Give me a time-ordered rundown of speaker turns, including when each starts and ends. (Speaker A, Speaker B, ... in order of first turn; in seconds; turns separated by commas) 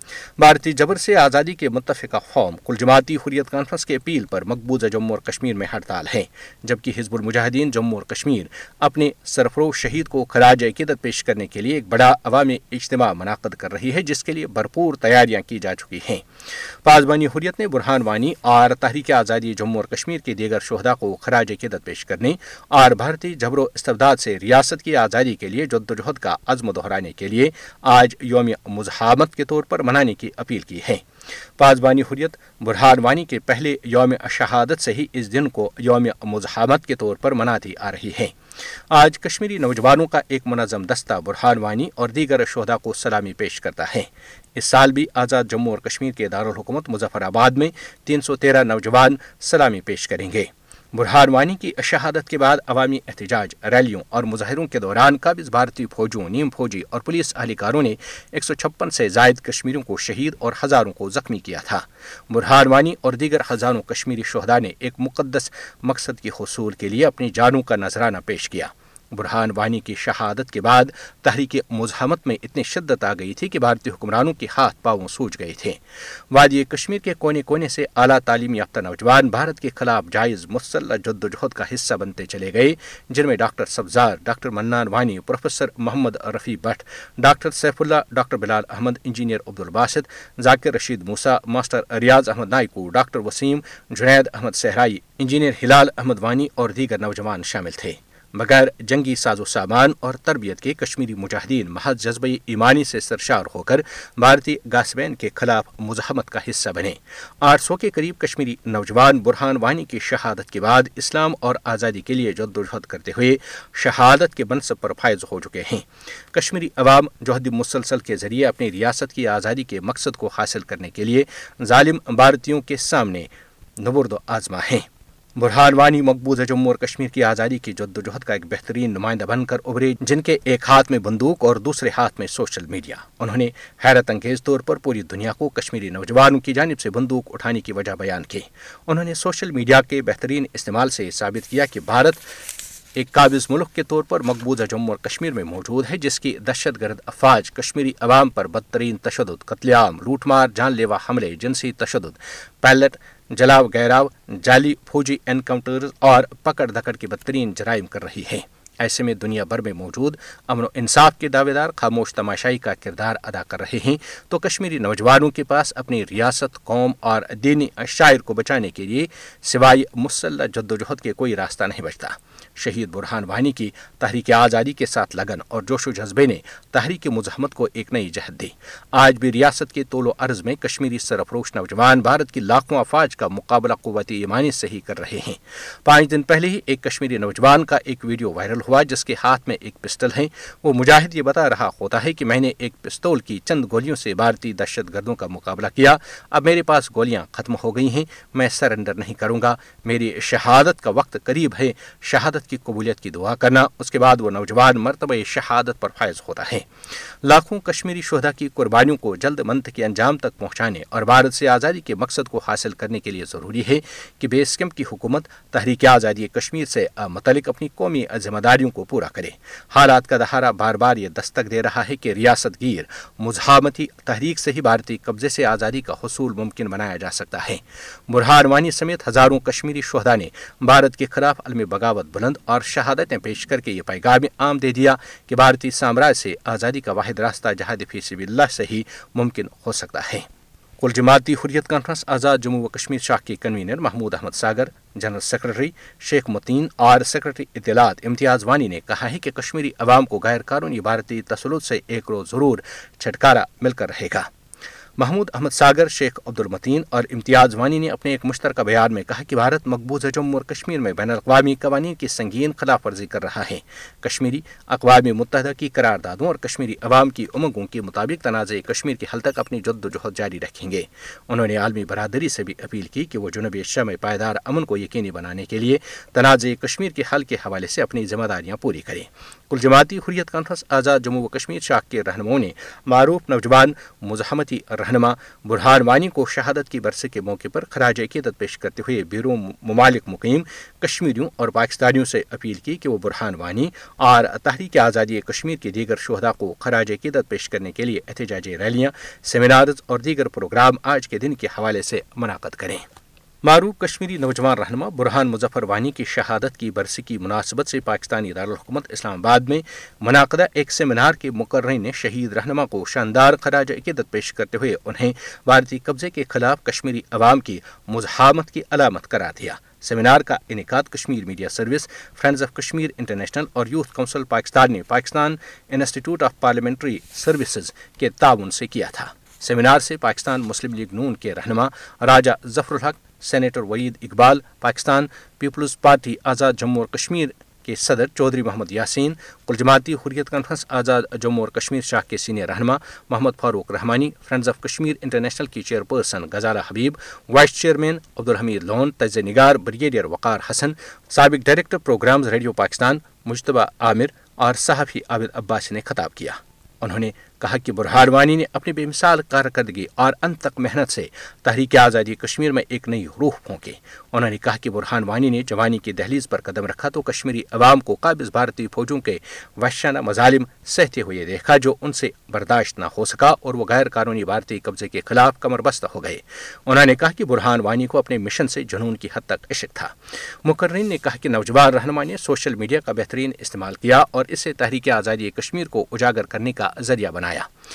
Speaker A: 0.4-16.2, Speaker A: 16.8-31.0, Speaker A: 31.6-38.3, Speaker A: 38.9-75.8, Speaker A: 76.3-123.3, Speaker A: 123.8-124.8, Speaker A: 125.4-142.2, Speaker A: 143.0-206.7, Speaker A: 207.2-240.2, Speaker A: 240.8-254.3, Speaker A: 255.0-302.8, Speaker A: 303.4-379.9, Speaker A: 380.4-387.5